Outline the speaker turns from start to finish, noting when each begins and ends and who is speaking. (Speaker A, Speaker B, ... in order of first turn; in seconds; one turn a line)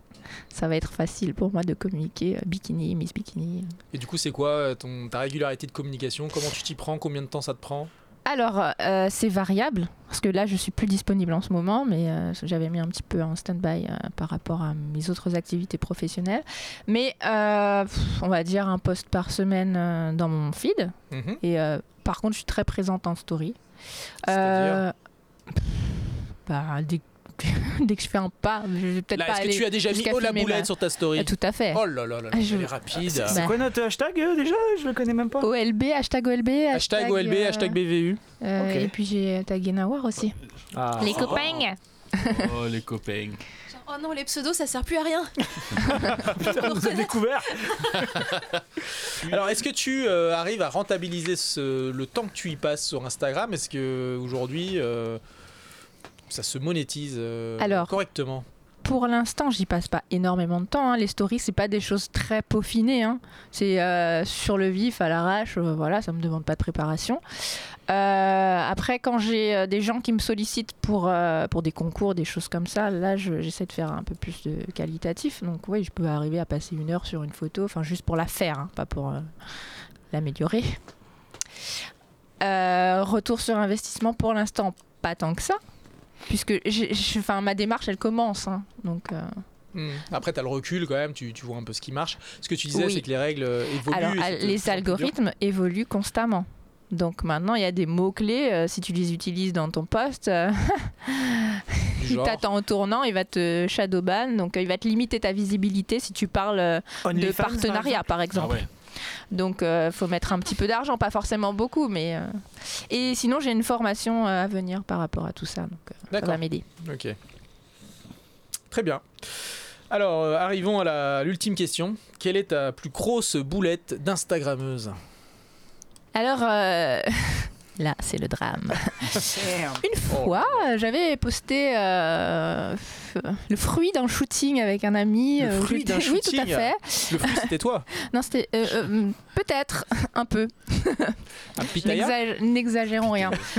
Speaker A: 0.5-3.7
Speaker B: 3.9-7.9
Speaker A: 8.3-23.6
Speaker B: 21.1-21.4
Speaker A: 24.2-24.9
Speaker B: 24.3-24.8
Speaker A: 25.5-32.7
Speaker B: 29.1-33.5
Speaker C: 33.2-35.5
Speaker A: 33.3-33.6
Speaker A: 35.4-37.8
Speaker B: 36.7-38.2
Speaker A: 38.4-40.4
Speaker C: 38.6-38.9
Speaker C: 40.7-41.5
Speaker A: 41.0-42.5
Speaker D: 41.1-43.4
Speaker E: 43.7-45.3
Speaker C: 46.2-48.2
Speaker E: 46.4-47.2
Speaker B: 49.1-55.2
Speaker B: 56.3-58.5
Speaker A: 57.6-57.9
Speaker A: 58.8-67.2
Speaker A: 67.9-79.3
Speaker A: 80.1-80.8
Speaker A: 82.4-85.6
Speaker A: 86.3-89.4
Speaker B: 89.7-95.1
Speaker A: 92.7-93.0
Speaker A: 93.9-108.7
Speaker B: 102.0-102.4
Speaker C: 107.0-108.1
Speaker D: 108.3-108.7
Speaker A: 109.3-116.6
Speaker B: 116.1-117.2
Speaker B: 118.7-125.0
Speaker A: 126.1-143.4
Speaker C: 129.2-129.8
Speaker B: 130.1-130.6
Speaker B: 135.4-137.9
Speaker B: 141.6-142.2
Speaker D: 143.0-143.4